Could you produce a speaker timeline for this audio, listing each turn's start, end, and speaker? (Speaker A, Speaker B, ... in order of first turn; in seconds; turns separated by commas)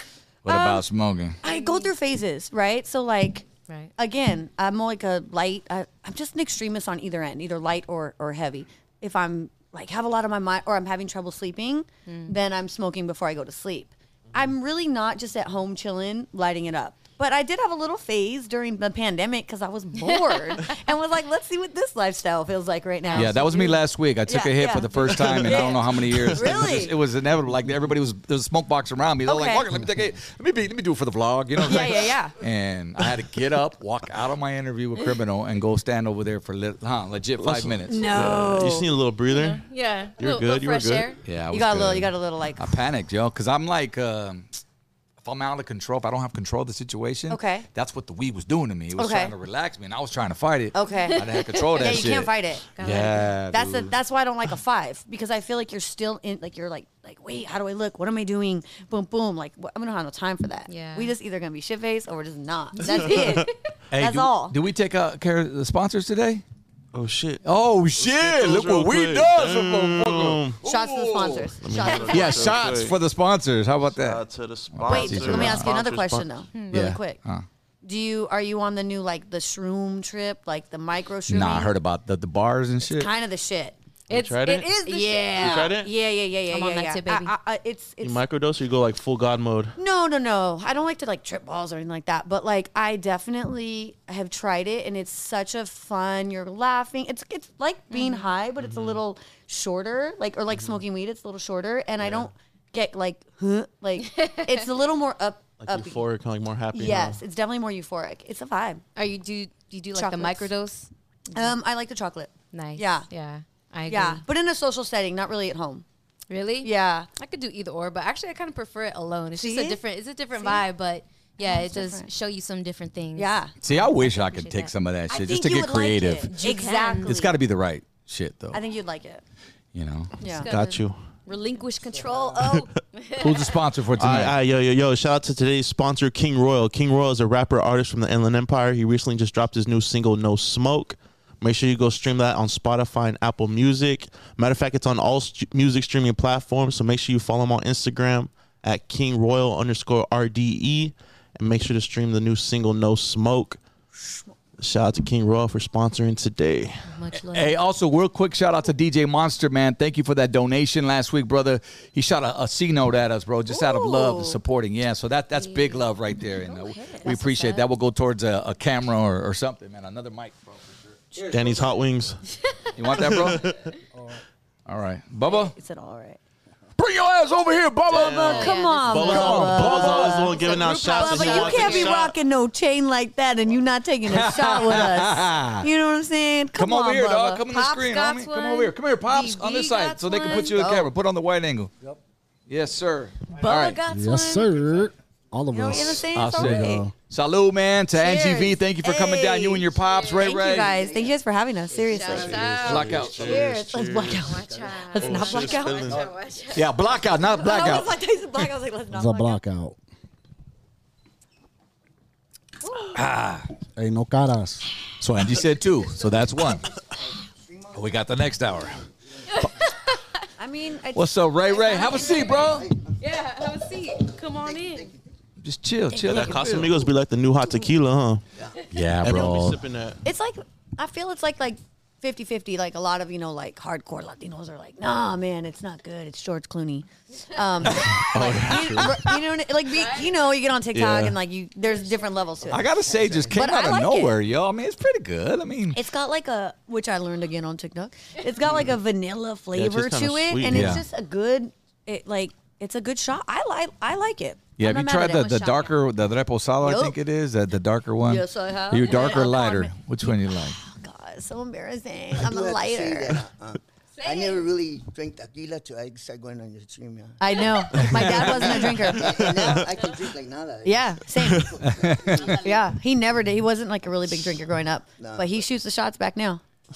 Speaker A: 0.4-1.4, Speaker B: 0.5-0.8, Speaker C: 1.4-1.9, Speaker B: 1.4-26.9, Speaker C: 12.1-12.3, Speaker C: 20.0-20.8, Speaker C: 23.1-23.4, Speaker A: 23.1-38.2, Speaker B: 29.3-29.7, Speaker B: 31.6-32.4, Speaker D: 37.4-39.6, Speaker B: 37.9-38.9, Speaker C: 39.3-41.2, Speaker D: 40.2-41.1, Speaker A: 41.2-44.6, Speaker B: 41.5-42.7, Speaker A: 45.2-53.9, Speaker B: 47.3-47.7, Speaker B: 49.0-49.3, Speaker B: 50.7-52.6, Speaker C: 51.1-52.1, Speaker C: 52.8-53.3, Speaker B: 53.5-64.5, Speaker C: 60.7-61.1, Speaker D: 62.8-63.5, Speaker C: 62.9-63.5, Speaker A: 63.9-66.4, Speaker D: 66.9-67.4, Speaker A: 67.4-71.5, Speaker D: 68.0-70.6, Speaker B: 70.6-72.6, Speaker D: 71.5-73.0, Speaker C: 71.8-72.4, Speaker A: 72.1-75.7, Speaker D: 74.0-76.4, Speaker B: 74.9-77.2, Speaker C: 76.5-76.8, Speaker A: 76.7-77.5, Speaker B: 77.8-81.7, Speaker A: 81.3-83.1, Speaker B: 82.9-83.8, Speaker C: 84.1-85.8, Speaker D: 84.1-84.7, Speaker B: 84.8-88.2, Speaker D: 85.3-85.9, Speaker C: 86.5-87.3, Speaker D: 88.0-89.8, Speaker B: 89.8-106.0, Speaker C: 97.9-98.3, Speaker D: 98.6-99.0, Speaker D: 102.0-102.3, Speaker C: 104.0-104.6, Speaker D: 105.6-107.2, Speaker B: 106.7-108.8, Speaker C: 109.0-111.5, Speaker B: 109.9-110.5, Speaker B: 111.3-113.1, Speaker C: 112.5-114.2, Speaker B: 113.9-115.8, Speaker C: 116.3-124.7, Speaker B: 116.6-117.1, Speaker B: 119.3-119.8, Speaker B: 120.3-120.6, Speaker B: 121.4-122.1, Speaker B: 123.2-123.5, Speaker A: 123.6-126.4, Speaker B: 125.1-127.3, Speaker C: 126.3-127.2, Speaker A: 127.1-128.6, Speaker B: 128.5-129.2, Speaker A: 129.7-130.2, Speaker B: 130.2-130.5, Speaker C: 130.2-133.6, Speaker D: 130.5-131.1, Speaker E: 131.9-132.4, Speaker A: 133.2-134.4, Speaker D: 133.9-153.6, Speaker D: 154.6-156.9, Speaker C: 156.9-157.6, Speaker A: 157.2-170.6, Speaker B: 163.5-164.4, Speaker C: 165.3-165.9, Speaker C: 166.5-167.7, Speaker B: 166.5-167.2, Speaker D: 171.2-172.2, Speaker A: 172.8-173.5, Speaker D: 172.9-173.7, Speaker A: 174.7-175.5, Speaker B: 175.3-176.2, Speaker A: 176.8-181.9, Speaker D: 177.9-182.1, Speaker B: 177.9-187.4, Speaker C: 178.3-179.3, Speaker C: 181.3-181.8, Speaker A: 184.1-185.7, Speaker A: 186.6-191.7, Speaker C: 187.5-190.6, Speaker B: 190.3-190.9, Speaker A: 192.5-193.8, Speaker B: 193.4-193.7, Speaker C: 193.4-194.5, Speaker F: 193.9-196.9, Speaker B: 195.5-196.9, Speaker A: 196.1-200.8, Speaker B: 197.9-202.4, Speaker C: 199.8-200.5, Speaker E: 200.8-201.1, Speaker E: 201.7-202.7, Speaker C: 201.9-203.1, Speaker D: 202.1-204.4, Speaker A: 202.7-203.3, Speaker B: 203.2-205.9, Speaker C: 204.1-206.7, Speaker E: 204.4-204.8, Speaker D: 204.9-206.1, Speaker A: 206.5-207.9, Speaker B: 207.3-209.4, Speaker F: 208.9-209.8, Speaker B: 212.6-213.0, Speaker A: 212.9-213.5, Speaker F: 213.8-214.7, Speaker A: 215.0-216.7, Speaker E: 217.4-217.9, Speaker A: 217.7-218.8, Speaker E: 218.5-218.9, Speaker C: 219.3-220.0, Speaker B: 220.4-222.4, Speaker A: 220.9-222.7, Speaker C: 221.9-222.4, Speaker E: 222.0-223.0, Speaker C: 223.0-224.9, Speaker E: 224.2-225.0, Speaker A: 225.4-226.8, Speaker B: 225.9-226.7, Speaker D: 226.0-228.2, Speaker E: 228.4-228.6, Speaker A: 228.7-229.6, Speaker D: 229.0-230.0, Speaker B: 230.0-242.7, Speaker A: 237.7-238.9, Speaker D: 238.2-239.0, Speaker C: 239.8-240.1, Speaker D: 240.7-241.2, Speaker E: 242.4-243.5, Speaker A: 242.5-245.8, Speaker B: 243.3-244.1, Speaker B: 245.7-255.8, Speaker D: 249.5-250.8, Speaker A: 250.5-250.8, Speaker A: 254.6-260.6, Speaker B: 256.6-256.9, Speaker B: 258.1-263.2, Speaker C: 258.9-259.2, Speaker E: 262.1-272.7, Speaker C: 263.9-264.5, Speaker B: 267.2-269.3, Speaker A: 267.8-268.8, Speaker D: 269.0-269.6, Speaker B: 270.6-271.5, Speaker D: 271.2-271.6, Speaker A: 271.6-272.4, Speaker B: 272.2-276.4, Speaker E: 275.0-275.5